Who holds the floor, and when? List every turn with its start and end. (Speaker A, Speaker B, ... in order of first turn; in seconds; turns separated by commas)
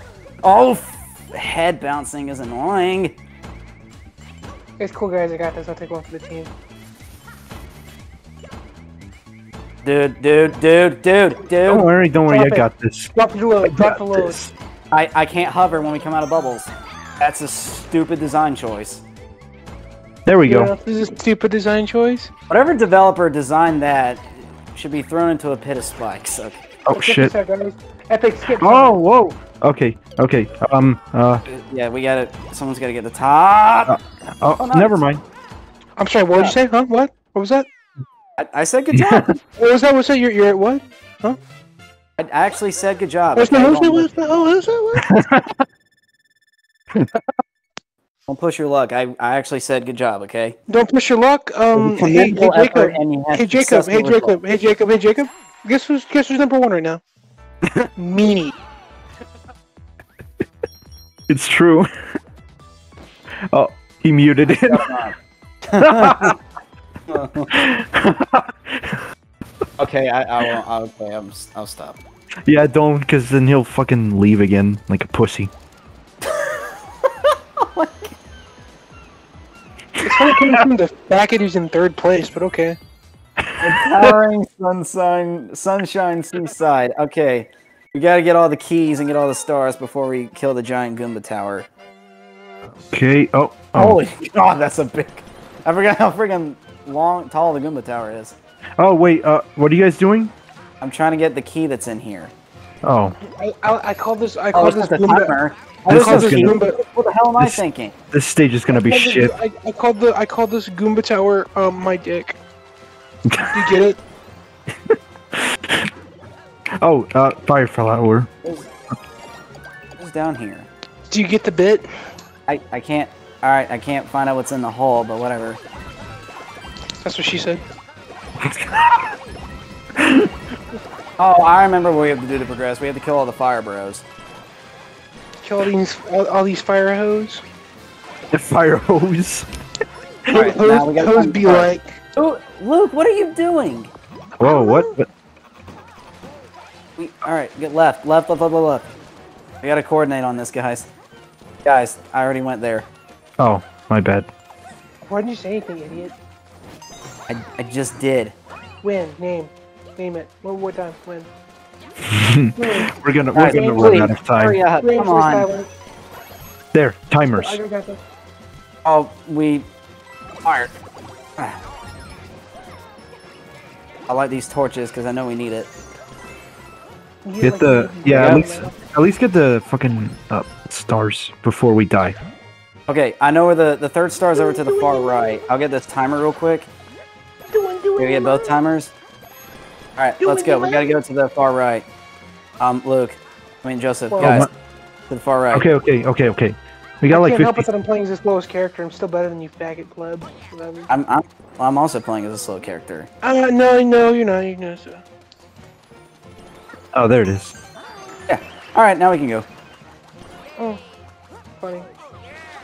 Speaker A: 0.4-3.1, Speaker B: 4.8-6.5, Speaker A: 9.8-11.9, Speaker C: 11.7-14.5, Speaker B: 12.2-14.4, Speaker A: 14.9-19.0, Speaker C: 20.2-20.7, Speaker B: 20.4-22.3, Speaker A: 22.5-26.6, Speaker C: 26.9-27.3, Speaker B: 26.9-29.0, Speaker C: 28.6-31.4, Speaker A: 31.4-35.0, Speaker C: 33.9-35.2, Speaker B: 36.0-37.7, Speaker A: 38.4-39.3, Speaker C: 38.9-39.3, Speaker B: 39.5-41.4, Speaker A: 42.2-44.1, Speaker B: 43.3-45.1, Speaker C: 45.0-45.6, Speaker A: 48.3-50.6, Speaker B: 50.7-57.0, Speaker A: 51.8-54.4, Speaker B: 58.0-58.5, Speaker C: 61.3-61.9, Speaker C: 63.5-64.9, Speaker A: 64.5-66.3, Speaker C: 65.8-66.3, Speaker A: 67.1-67.6, Speaker C: 67.5-69.0, Speaker A: 69.8-72.0, Speaker C: 72.5-75.5, Speaker A: 76.2-78.2, Speaker C: 80.0-80.6, Speaker B: 80.0-82.8, Speaker C: 83.4-84.2, Speaker A: 83.6-91.7, Speaker C: 92.9-94.0, Speaker A: 93.7-98.3, Speaker C: 98.8-100.3, Speaker A: 100.8-102.3, Speaker C: 102.8-103.2, Speaker B: 103.3-106.8, Speaker A: 104.5-107.9, Speaker C: 105.9-106.6, Speaker C: 107.4-109.3, Speaker B: 108.7-112.4, Speaker C: 113.2-113.8, Speaker B: 113.5-114.0, Speaker C: 114.9-115.9, Speaker C: 116.8-118.3, Speaker A: 120.0-120.7, Speaker B: 121.1-121.9, Speaker A: 122.5-125.6, Speaker B: 127.0-127.6, Speaker C: 128.4-129.2, Speaker C: 129.9-130.3, Speaker A: 131.2-134.0, Speaker B: 135.4-137.4, Speaker C: 138.3-139.5, Speaker B: 140.3-142.0, Speaker A: 140.3-143.9, Speaker B: 144.4-144.9, Speaker C: 144.4-145.1, Speaker A: 147.0-148.9, Speaker A: 149.6-150.9, Speaker A: 151.6-152.9, Speaker C: 153.4-154.3, Speaker B: 155.1-156.1, Speaker A: 157.3-158.3, Speaker B: 158.8-161.3, Speaker C: 162.0-164.6, Speaker B: 162.6-164.1, Speaker A: 163.3-165.5, Speaker B: 164.8-165.7, Speaker C: 166.7-167.6, Speaker B: 167.4-168.0, Speaker A: 168.8-169.7, Speaker A: 170.4-170.7, Speaker A: 174.1-175.7, Speaker B: 177.2-178.8, Speaker C: 177.4-182.2, Speaker A: 178.2-178.5, Speaker A: 182.9-186.7, Speaker B: 184.3-185.4, Speaker B: 187.5-188.6, Speaker A: 188.0-188.9, Speaker A: 190.0-191.8, Speaker B: 190.2-191.0, Speaker A: 192.6-194.5, Speaker B: 194.1-194.4, Speaker C: 194.2-194.5, Speaker A: 195.1-195.7, Speaker C: 195.5-197.7, Speaker B: 197.1-200.9, Speaker A: 200.9-203.1, Speaker B: 203.2-205.0, Speaker C: 206.9-207.6, Speaker A: 208.3-209.4, Speaker B: 211.6-211.9